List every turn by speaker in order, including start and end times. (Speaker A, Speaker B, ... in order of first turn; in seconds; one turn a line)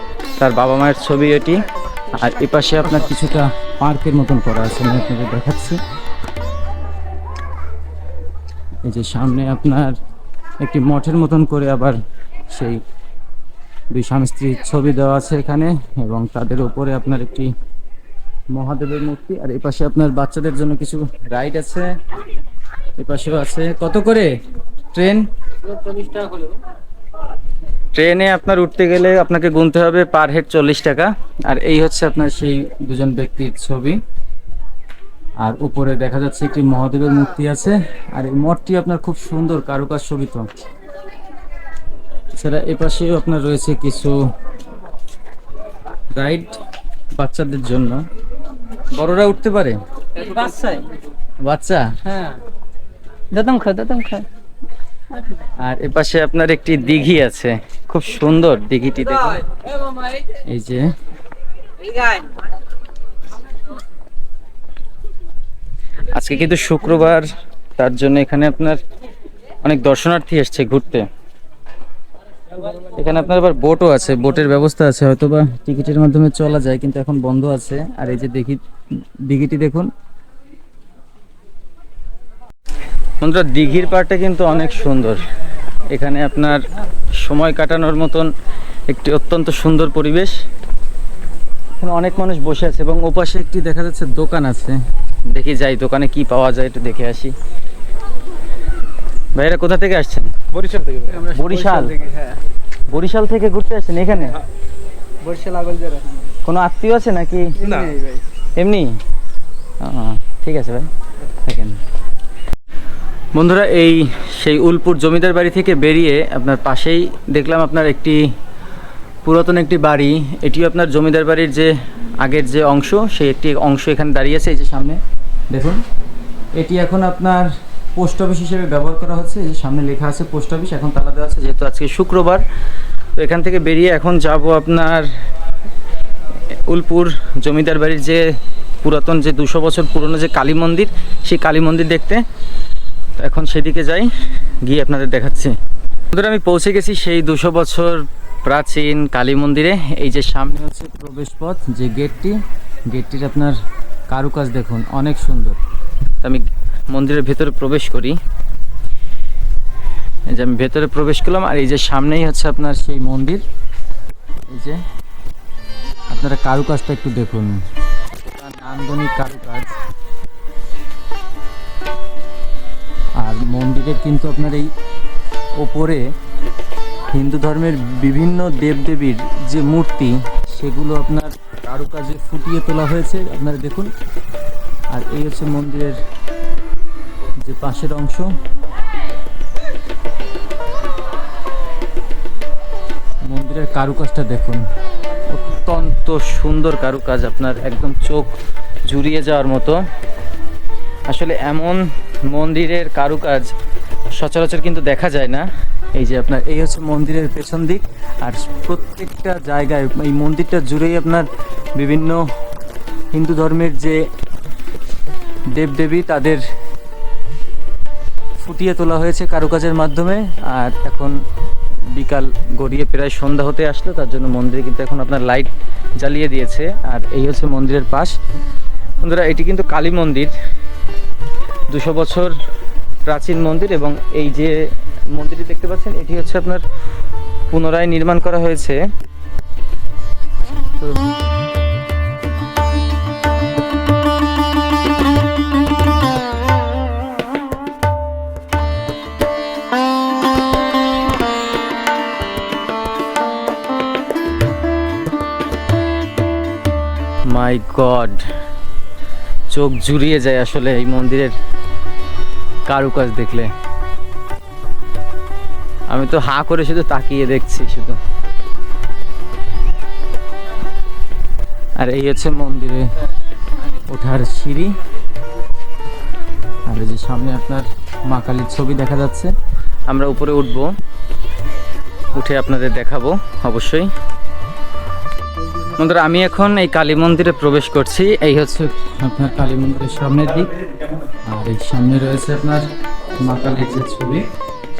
Speaker A: 0.4-5.8
Speaker A: 8.8-10.0
Speaker A: 10.6-12.0
Speaker A: 12.5-12.8
Speaker A: 13.9-17.5
Speaker A: 18.5-21.9
Speaker A: 23.0-24.3
Speaker A: 24.9-26.5
Speaker A: 27.9-34.0
Speaker A: 35.4-40.5
Speaker A: 42.3-44.2
Speaker A: 46.1-46.6
Speaker A: 47.1-48.0
Speaker A: 48.9-50.3
Speaker B: 50.2-50.9
Speaker A: 51.4-52.0
Speaker B: 53.3-54.3
Speaker A: 55.6-59.4
Speaker A: 60.3-60.9
Speaker A: 66.1-68.8
Speaker A: 69.6-71.1
Speaker A: 72.8-78.6
Speaker A: 79.2-79.9
Speaker A: 83.2-85.2
Speaker A: 85.9-86.6
Speaker A: 87.1-88.3
Speaker A: 88.9-90.4
Speaker A: 91.8-97.3
Speaker A: 99.3-100.3
Speaker B: 100.6-102.4
Speaker A: 101.2-102.0
Speaker A: 102.9-104.4
Speaker B: 105.2-106.2
Speaker A: 106.4-107.8
Speaker B: 107.6-108.2
Speaker A: 108.5-109.0
Speaker A: 109.8-111.8
Speaker A: 113.3-118.3
Speaker A: 119.2-125.8
Speaker A: 126.5-132.4
Speaker A: 133.1-135.1
Speaker A: 136.5-138.2
Speaker A: 138.8-142.2
Speaker A: 143.2-145.6
Speaker A: 146.1-153.6
Speaker A: 154.1-155.6
Speaker A: 156.2-158.2
Speaker A: 160.3-163.4
Speaker A: 164.5-164.8
Speaker A: 166.1-167.6
Speaker A: 168.2-169.8
Speaker A: 173.2-174.7
Speaker A: 175.6-176.1
Speaker A: 177.1-183.9
Speaker A: 184.9-186.0
Speaker A: 187.4-188.3
Speaker A: 193.2-194.7
Speaker A: 195.3-198.3
Speaker A: 198.8-199.8
Speaker A: 201.1-203.5
Speaker A: 204.1-212.2
Speaker A: 213.1-214.0
Speaker A: 215.5-216.4
Speaker A: 218.4-221.2
Speaker A: 221.9-228.2
Speaker A: 229.0-230.3
Speaker A: 231.7-232.3
Speaker A: 233.1-236.6
Speaker A: 237.5-238.8
Speaker A: 257.3-258.3
Speaker A: 259.5-261.3
Speaker A: 262.6-263.5
Speaker A: 265.9-268.0
Speaker A: 271.8-272.9
Speaker A: 273.7-274.8
Speaker A: 276.6-279.3
Speaker A: 279.9-280.7
Speaker A: 282.1-283.9
Speaker A: 285.6-290.5
Speaker A: 291.2-294.2